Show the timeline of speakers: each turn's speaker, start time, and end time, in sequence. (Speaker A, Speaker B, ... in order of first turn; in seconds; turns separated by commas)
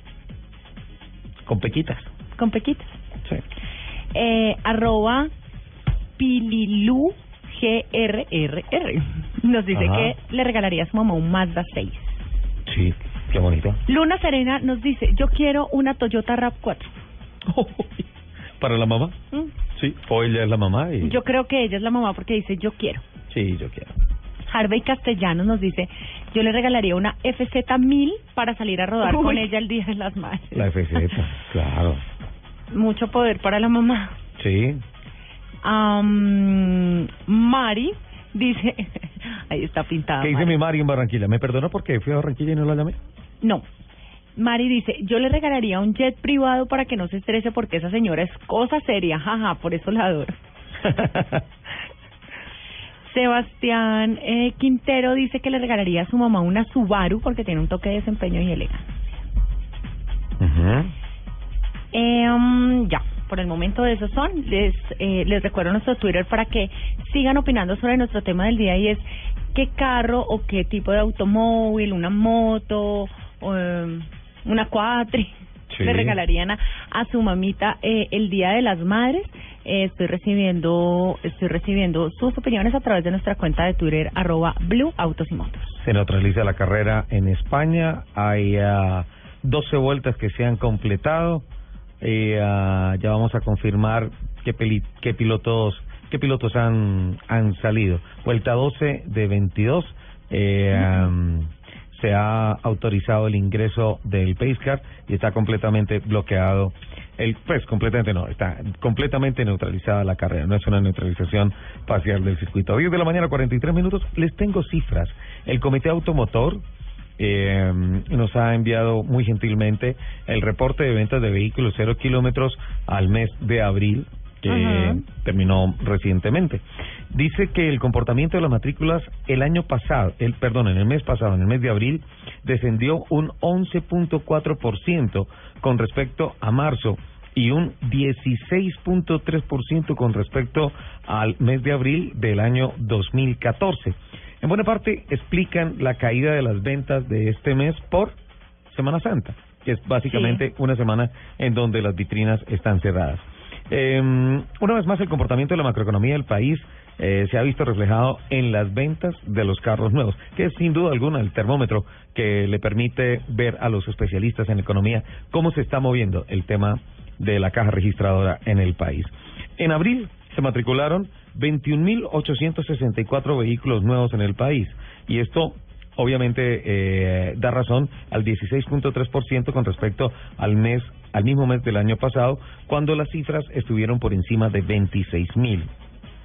Speaker A: 1.5-2.1, Speaker B: 2.4-3.0, Speaker B: 4.1-5.3, Speaker B: 6.2-12.2, Speaker A: 9.7-10.1, Speaker A: 12.7-13.8, Speaker B: 13.9-16.9, Speaker A: 17.5-18.1, Speaker A: 18.6-19.2, Speaker A: 19.7-21.2, Speaker B: 21.0-23.0, Speaker A: 23.3-23.9, Speaker B: 24.5-31.1, Speaker A: 30.5-32.0, Speaker B: 32.7-34.2, Speaker A: 34.4-34.8, Speaker B: 35.6-40.6, Speaker A: 40.2-43.0, Speaker B: 44.4-50.4, Speaker A: 50.8-51.4, Speaker B: 53.0-59.1, Speaker A: 60.4-60.9, Speaker B: 61.9-85.8, Speaker A: 75.7-76.2, Speaker A: 85.8-91.4, Speaker A: 92.0-116.6, Speaker A: 117.2-148.2, Speaker B: 124.5-125.0, Speaker A: 148.7-185.7, Speaker B: 150.0-150.4